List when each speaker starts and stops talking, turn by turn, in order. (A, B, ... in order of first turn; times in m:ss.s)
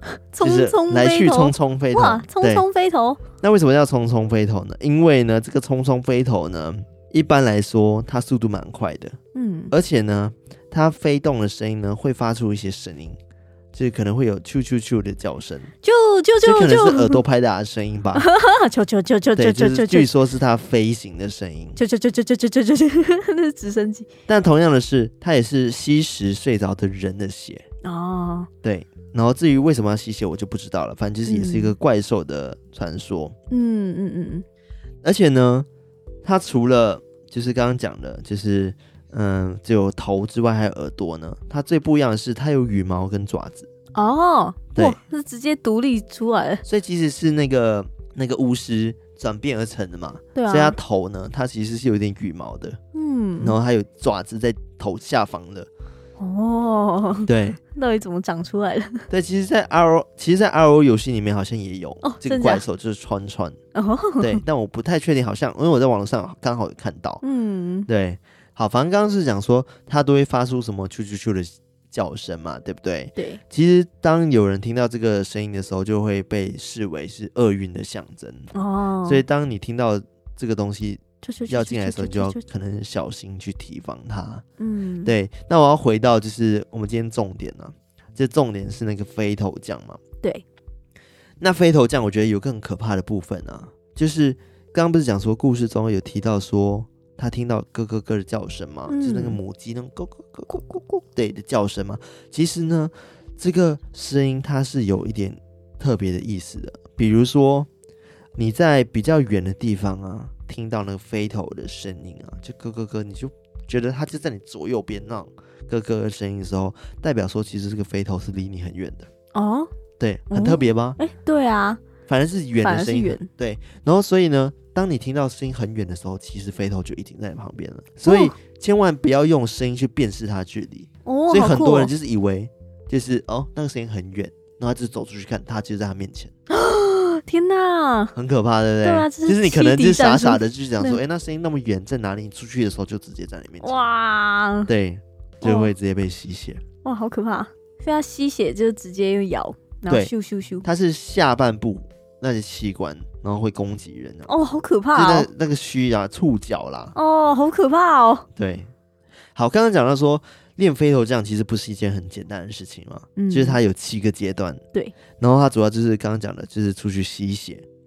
0:00.3-0:03.2 A
0:00.4-0:02.6 B
0:03.4-0:09.2 B
0:09.3-0:09.7 A
0:09.7-0:13.2 B
0:13.7-0:15.7 B
0:15.8-0:17.2 A
0:16.4-0:18.2 B
0:18.1-0:20.1 A
0:19.4-0:21.8 B
0:21.8-0:24.1 A
0:24.3-0:27.6 B
0:27.8-0:28.5 A
0:28.6-0:33.3 B
0:31.2-0:31.7 A
0:33.5-0:34.4 A
0:35.0-0:35.7 B
0:36.2-0:43.7 B
0:43.9-0:46.6 A
0:46.6-0:52.8 B
0:50.3-0:50.8 A
0:52.9-0:53.5 A
0:53.4-0:55.7 B
0:56.2-0:59.1 A
0:57.3-0:57.6 B
0:59.1-1:03.6 B
1:02.0-1:02.6 A
1:03.7-1:04.4 A
1:04.2-1:07.2 B
1:07.2-1:07.9 A
1:07.9-1:18.5 B
1:13.2-1:13.4 A
1:18.5-1:19.2 A
1:19.0-1:24.4 B
1:21.2-1:22.4 A
1:24.6-1:25.1 A
1:25.0-1:30.0 B
1:31.4-1:47.7 B
1:38.9-1:39.4 A
1:40.5-1:41.0 A
1:48.4-1:59.1 B
1:59.3-1:59.7 A
2:00.0-2:01.0 B
2:00.3-2:01.8 A
2:02.1-2:16.3 B
2:02.6-2:03.3 A
2:08.0-2:08.3 A
2:11.0-2:11.9 A
2:16.5-2:18.1 A
2:18.2-2:23.8 B
2:18.8-2:21.0 A
2:23.6-2:24.7 A
2:24.7-2:26.6 B
2:25.4-2:25.7 A
2:26.8-2:30.6 A
2:30.6-2:34.3 B
2:34.3-2:35.3 A
2:34.9-2:36.9 B
2:36.9-2:38.3 A
2:38.4-2:38.7 B
2:39.3-2:44.6 B
2:43.2-2:43.6 A
2:45.2-2:47.6 B